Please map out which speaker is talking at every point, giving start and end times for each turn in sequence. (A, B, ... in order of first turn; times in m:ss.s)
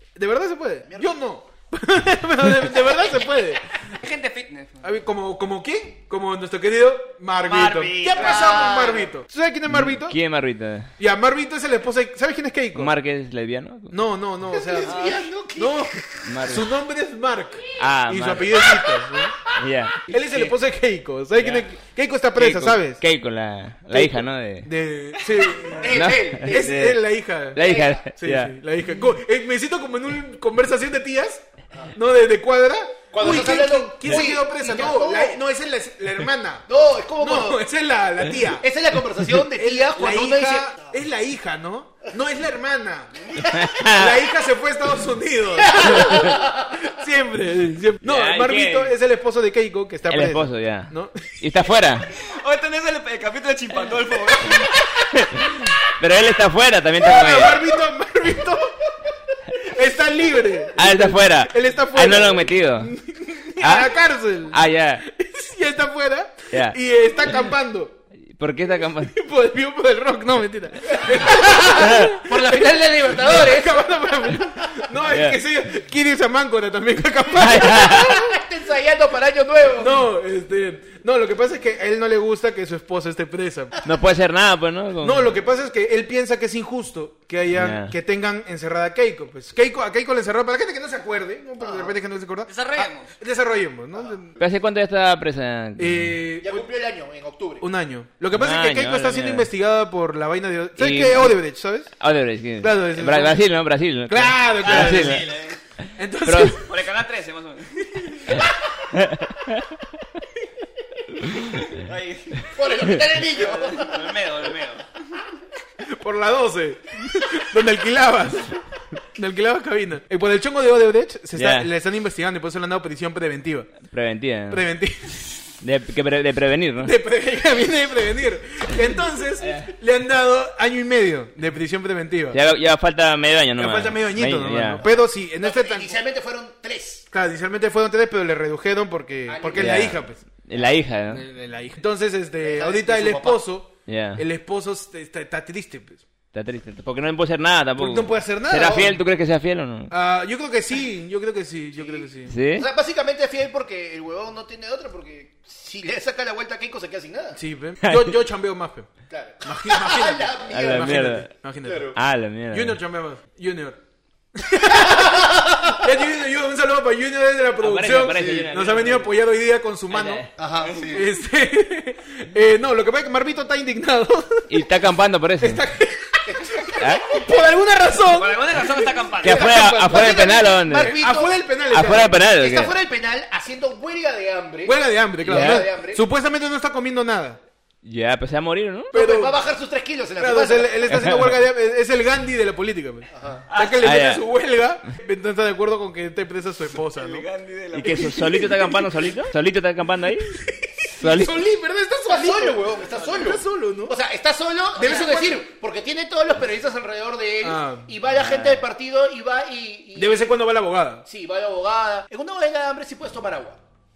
0:00.2-0:03.6 A
0:00.9-0:01.2 B
0:03.8-0:04.9 C
0:04.8-0:10.2 A
0:07.4-0:08.7 C
0:08.1-0:09.1 B
0:09.7-0:10.9 D
0:11.0-0:12.9 A
0:12.8-0:14.0 D
0:13.9-0:19.4 A
0:14.5-0:16.0 B
0:14.8-0:15.2 C
0:16.2-0:16.7 D
0:17.8-0:18.6 D
0:18.6-0:19.3 B
0:19.6-0:20.2 D
0:20.1-0:23.0 A
0:21.4-0:21.6 D
0:22.4-0:24.7 D
0:23.9-0:36.6 A
0:25.6-0:26.9 B
0:25.9-0:27.0 D
0:27.5-0:28.5 D
0:27.6-0:28.0 B
0:33.1-0:35.4 B
0:36.7-0:37.6 B
0:37.2-0:38.7 A
0:38.5-0:41.0 B
0:39.3-0:51.2 A
0:43.4-0:44.2 D
0:45.6-0:46.8 B
0:48.0-0:48.9 D
0:50.1-0:52.1 D
0:52.2-0:54.9 C
0:55.1-0:57.6 D
0:57.0-0:58.7 A
0:59.6-1:08.0 A
1:00.8-1:02.9 D
1:03.6-1:03.9 D
1:04.5-1:05.1 D
1:06.5-1:06.8 D
1:08.3-1:09.1 D
1:09.0-1:12.6 A
1:11.0-1:14.8 B
1:13.1-1:18.4 A
1:15.1-1:15.4 D
1:17.4-1:18.2 D
1:17.7-1:20.0 B
1:19.8-1:23.8 A
1:23.8-1:25.3 D
1:25.0-1:34.4 A
1:27.5-1:27.9 D
1:31.6-1:31.9 B
1:32.5-1:33.1 C
1:34.4-1:36.2 D
1:35.8-1:36.7 A
1:36.4-1:37.7 B
1:37.6-1:41.9 A
1:38.3-1:39.5 D
1:40.8-1:41.4 D
1:42.0-1:45.3 D
1:42.6-1:43.5 A
1:44.1-1:45.3 A
1:44.6-1:45.6 C
1:46.0-1:46.7 A
1:46.2-1:46.6 D
1:46.6-1:48.2 C
1:48.3-1:49.6 D
1:51.6-1:54.8 C
1:52.6-1:54.1 B
1:55.8-1:58.6 A
1:59.1-2:03.7 A
2:01.4-2:01.7 D
2:03.9-2:04.6 D
2:04.5-2:05.3 A
2:05.6-2:07.0 D
2:06.8-2:12.4 A
2:12.3-2:14.8 D
2:13.6-2:16.0 A
2:15.4-2:17.0 B
2:17.1-2:20.2 A
2:19.3-2:20.0 B
2:19.6-2:21.2 D
2:21.1-2:26.0 A
2:22.4-2:23.4 B
2:23.9-2:24.2 D
2:26.3-2:29.9 D
2:27.8-2:29.0 A
2:29.9-2:32.3 A
2:31.8-2:37.4 B
2:32.3-2:32.7 D
2:37.4-2:38.9 A
2:37.8-2:38.1 D
2:39.1-2:41.1 B
2:39.4-2:41.9 A
2:40.5-2:41.3 D
2:41.6-2:42.0 B
2:41.9-2:42.8 D
2:42.5-2:43.8 A
2:44.4-2:50.3 A
2:44.9-2:45.6 B
2:47.6-2:49.1 D
2:49.9-2:50.3 D
2:50.4-2:51.0 B
2:50.6-2:51.0 C
2:50.9-2:54.6 A
2:54.5-2:55.6 D
2:55.4-2:58.9 A
2:56.3-2:56.7 B
2:56.8-2:57.0 D
2:58.1-2:59.6 C
2:59.2-3:01.4 B
2:59.2-3:01.0 D
3:00.8-3:02.2 A
3:01.7-3:02.7 D
3:02.2-3:06.0 B
3:04.6-3:07.4 A
3:05.2-3:05.6 D
3:07.8-3:08.9 D
3:08.9-3:09.4 A
3:08.9-3:10.9 B
3:10.2-3:17.2 A
3:10.9-3:11.3 D
3:13.1-3:13.4 B
3:13.5-3:13.9 C
3:13.8-3:14.2 D
3:16.9-3:18.5 C
3:17.7-3:20.4 D
3:18.0-3:18.6 A
3:20.3-3:23.9 A
3:21.0-3:21.4 D
3:22.1-3:30.3 B
3:24.8-3:25.4 A
3:27.4-3:27.9 A
3:28.2-3:28.6 D
3:30.0-3:31.0 A
3:31.0-3:33.6 B